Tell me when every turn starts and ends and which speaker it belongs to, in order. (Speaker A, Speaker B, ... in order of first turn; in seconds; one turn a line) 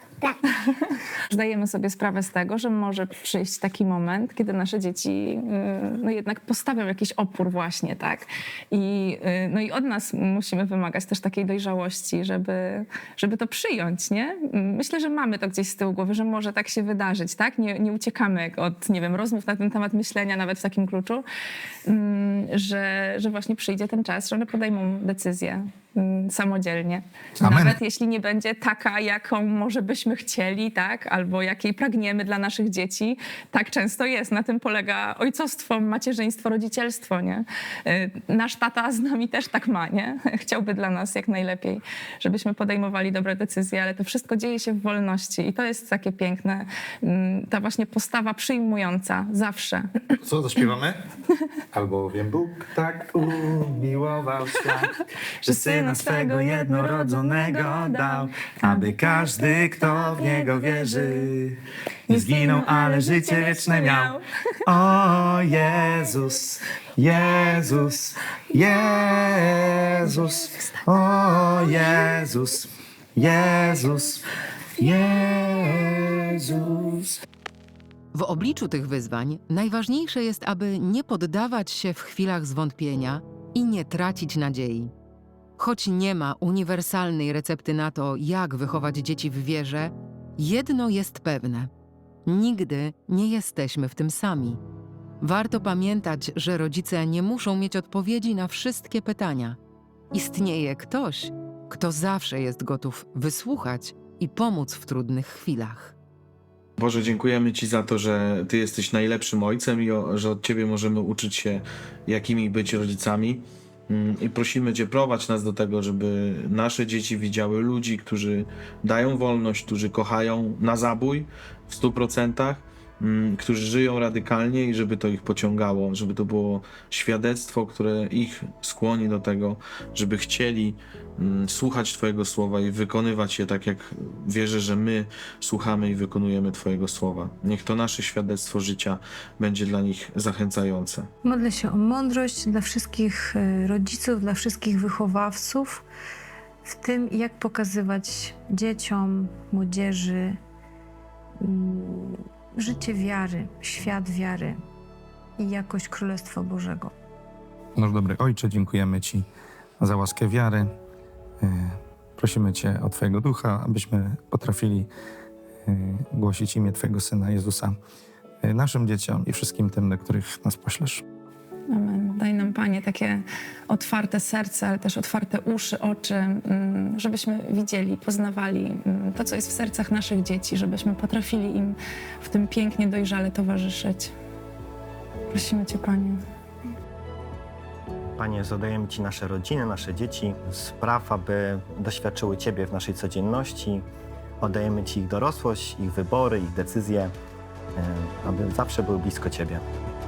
Speaker A: 0.2-21.2
Speaker A: 21.9-49.9
Speaker B: 27.4-27.8
Speaker B: 50.2-51.0
Speaker B: 51.7-54.9
Speaker A: 55.4-61.3
Speaker B: 55.4-74.2
Speaker A: 62.1-64.2
Speaker B: 74.8-77.2
Speaker C: 78.1-84.9
Speaker C: 85.6-91.7
Speaker C: 92.2-94.6
Speaker C: 95.2-99.6
Speaker C: 100.1-105.9
Speaker D: 106.8-141.1
Speaker E: 141.2-145.8
Speaker E: 146.7-150.4
Speaker E: 151.4-154.6
Speaker E: 155.4-156.9
Speaker B: 157.8-159.2
Speaker B: 159.8-160.7
Speaker B: 161.4-164.9
Speaker B: 165.7-167.8
Speaker B: 168.4-171.0
Speaker A: 171.7-184.1
Speaker A: 185.3-186.2
Speaker F: 188.2-193.8
Speaker F: 194.4-197.1
Speaker F: 197.8-199.6